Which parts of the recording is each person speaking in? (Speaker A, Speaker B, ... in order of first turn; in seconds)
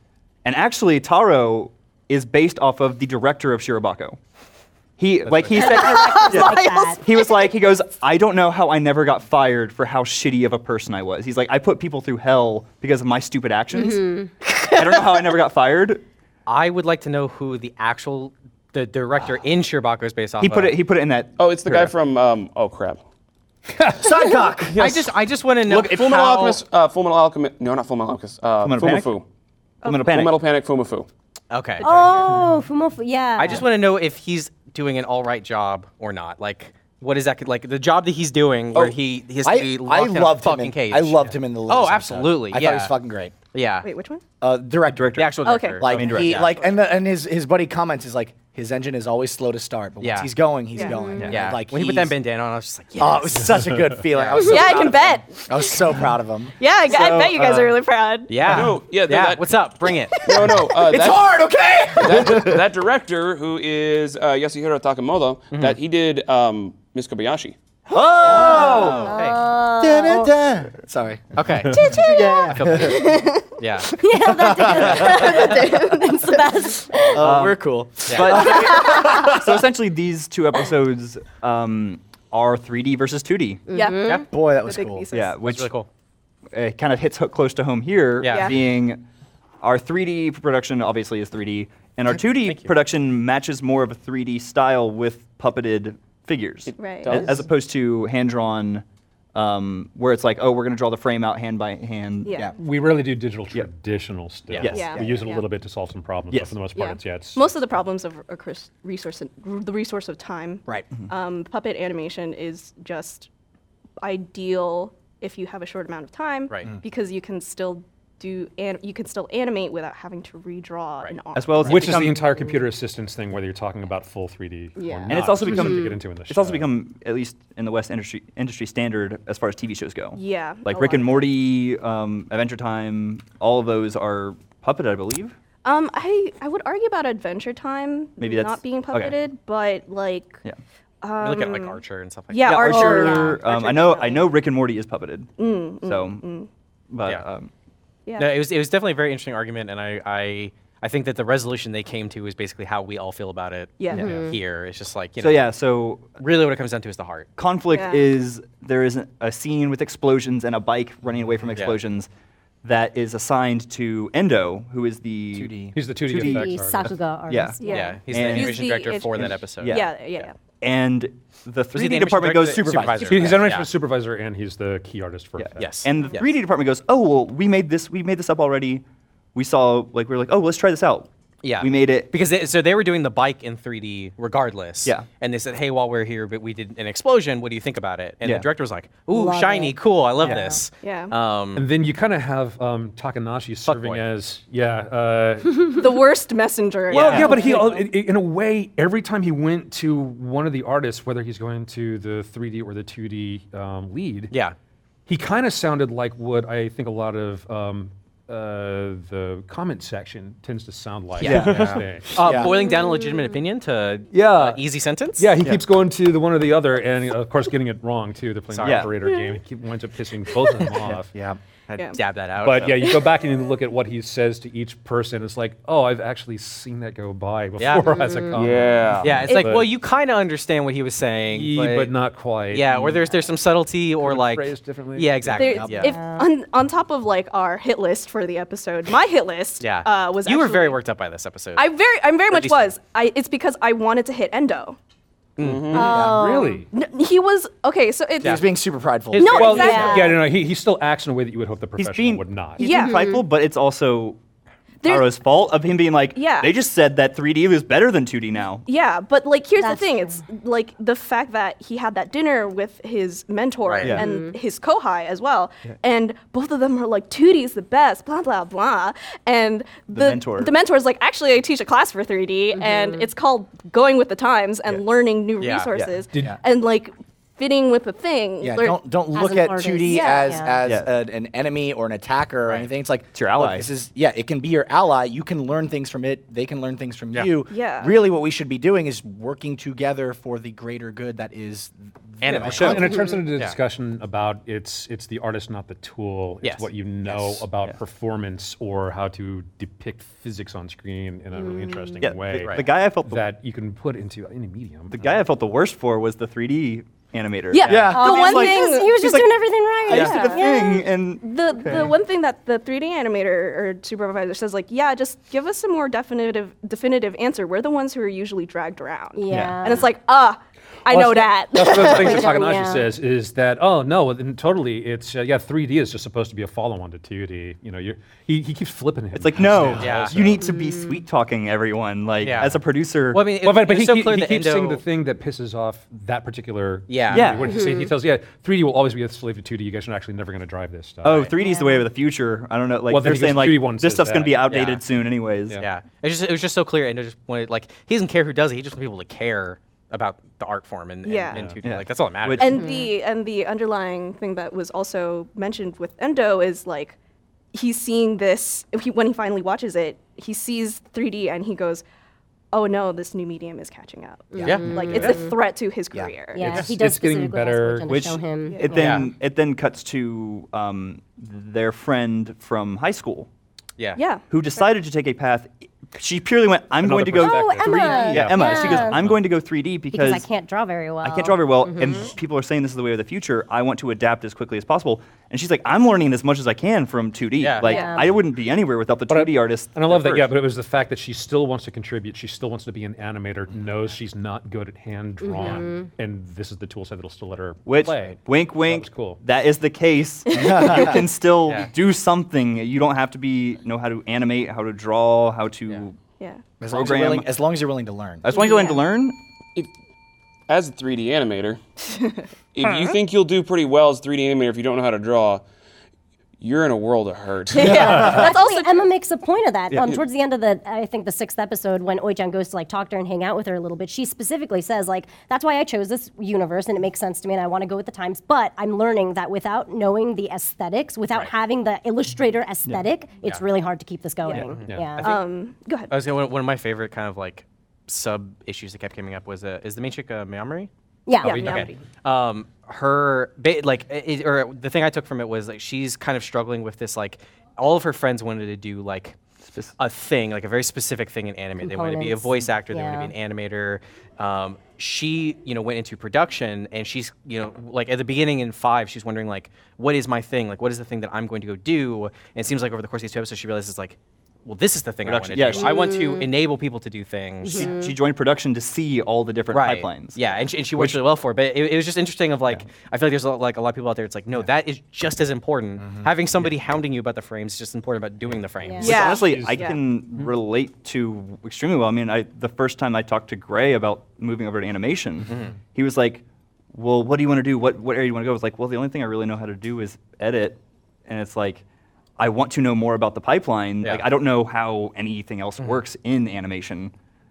Speaker A: 0.4-4.2, 5.0-16.0, 20.4-21.9, 25.7-26.5, 28.6-29.1, 29.8-30.4, 44.9-46.4, 51.2-51.5, 67.9-68.9, 77.2-83.7, 85.1-85.7, 86.5-89.0, 89.6-102.4, 104.5-105.0, 121.3-122.3, 125.1-135.3, 138.2-139.2, 142.4-146.2, 146.9-147.5, 155.2-156.1, 157.4-162.1, 162.6-166.7, 167.3-169.9, 170.6-173.4, 175.4-178.8, 179.3-182.1, 188.2-188.5, 211.2-211.8, 218.6-218.9, 251.8-254.2, 254.8-258.6, 269.9-270.5, 280.6-280.9, 283.1-283.7, 292.4-292.9, 302.0-303.2, 304.9-311.9, 329.1-333.2, 337.1-337.6, 341.0-345.6, 351.6-352.6, 367.9-373.3, 374.3-380.2, 381.0-390.3, 397.6-406.0, 406.6-407.3, 408.2-409.2, 419.7-419.9, 449.5-449.7, 465.0-466.0, 467.5-470.2, 470.7-471.0, 478.8-491.6, 492.2-496.9
Speaker B: 5.2-5.8, 102.6-107.5, 121.6-126.7, 153.9-154.3, 165.7-166.9, 173.0-175.8, 191.6-195.8, 196.9-204.3, 205.1-212.4, 214.1-214.6, 215.2-221.1, 222.4-229.7, 231.3-233.2, 234.0-235.7, 245.9-246.7, 249.4-252.6, 292.5-305.1, 319.3-319.6, 320.9-330.4, 333.4-341.3, 342.9-344.5, 366.4-368.0, 376.8-379.2, 389.1-399.2, 441.2-441.7, 479.1-479.8
Speaker C: 5.5-7.0, 13.7-14.3, 31.8-33.6, 50.8-51.3, 68.2-70.3, 71.7-72.5, 74.0-77.2, 83.7-84.2, 125.5-125.9, 142.7-143.4, 154.0-154.3, 166.1-167.8, 189.1-190.6, 228.0-228.2, 235.8-236.3, 245.7-246.6, 249.5-250.1, 252.6-253.2, 259.6-260.2, 263.9-264.4, 272.5-273.1, 279.1-280.5, 301.4-302.0, 307.9-310.6, 319.1-319.9, 321.7-322.9, 330.4-330.9, 337.4-337.9, 341.4-341.8, 352.5-352.9, 364.3-365.4, 366.3-368.9, 377.1-379.0, 379.9-382.1, 387.6-388.1, 395.2-395.9, 408.3-408.7, 417.5-435.1, 441.1-441.4, 451.6-453.1, 465.5-466.3, 467.4-467.9, 478.6-478.9
Speaker D: 6.2-6.9, 29.8-30.1, 43.8-44.2, 45.4-46.5, 50.7-51.2, 54.4-55.8, 56.6-58.4, 72.9-73.5, 75.0-76.7, 83.7-85.5, 88.3-88.6, 96.8-97.2, 102.2-102.5, 104.6-105.4, 106.7-113.3, 114.0-122.1, 124.8-125.2, 130.1-131.3, 135.6-140.4, 141.0-144.3, 145.4-146.5, 148.1-148.4, 153.8-154.1, 157.7-158.1, 167.6-170.3, 190.8-191.1, 195.7-197.9, 221.8-222.0, 235.4-240.8, 241.6-244.8, 245.7-246.2, 246.7-248.5, 249.1-250.2, 252.6-253.1, 254.8-255.2, 256.1-256.6, 258.6-278.8, 279.8-280.4, 287.5-287.9, 307.5-309.2, 309.9-322.3, 351.0-351.5, 352.4-357.0, 357.5-361.8, 362.5-366.6, 368.4-368.8, 373.9-374.7, 387.6-388.1, 400.3-400.6, 408.4-408.7, 411.9-412.2, 417.5-418.9, 435.0-435.9, 441.2-441.8, 478.8-479.8
Speaker E: 16.4-20.8, 24.7-26.6, 31.5-32.4, 33.4-43.0, 43.5-43.9, 45.1-46.6, 50.0-50.3, 51.2-55.0, 58.3-60.3, 65.5-65.8, 68.4-69.4, 71.3-73.9, 78.0-78.5, 84.0-84.3, 85.4-85.9, 88.2-88.5, 92.4-92.7, 104.5-104.8, 116.5-116.8, 141.2-143.1, 148.2-155.5, 156.2-157.3, 167.6-169.9, 171.7-173.7, 175.6-176.3, 181.4-191.7, 193.7-194.0, 196.9-197.7, 204.3-204.6, 211.2-215.3, 218.5-218.9, 221.8-223.0, 227.6-228.0, 229.0-231.9, 232.5-236.0, 239.6-241.7, 242.3-242.8, 245.4-245.9, 248.2-248.5, 249.1-250.0, 263.6-264.0, 275.4-275.7, 292.2-293.6, 296.4-296.7, 302.4-302.7, 329.8-330.2, 332.2-332.6, 333.1-334.8, 336.9-337.4, 344.4-344.8, 345.6-352.6, 364.4-365.2, 368.7-369.1, 373.8-374.0, 387.4-387.8, 434.2-435.2, 435.9-440.7, 441.2-449.2, 449.8-467.8, 469.5-479.1, 485.3-485.6
Speaker F: 21.4-23.0, 25.7-29.2, 30.0-31.1, 58.4-59.5, 60.2-61.4, 62.0-67.5, 96.7-97.4, 228.3-229.3, 245.4-246.0, 410.5-411.6, 412.5-415.4, 416.4-418.2
Speaker G: 24.0-25.0, 39.4-43.3, 44.4-45.2, 45.8-52.1, 53.0-56.5, 60.3-62.6, 67.9-69.1, 69.8-73.1, 74.1-75.8, 77.1-79.6, 84.3-85.0, 104.9-105.2, 165.3-165.8, 172.7-173.3, 211.4-212.5, 220.8-221.4, 248.2-249.6, 278.4-293.0, 307.7-308.1, 400.3-401.0, 406.6-408.2, 475.8-476.1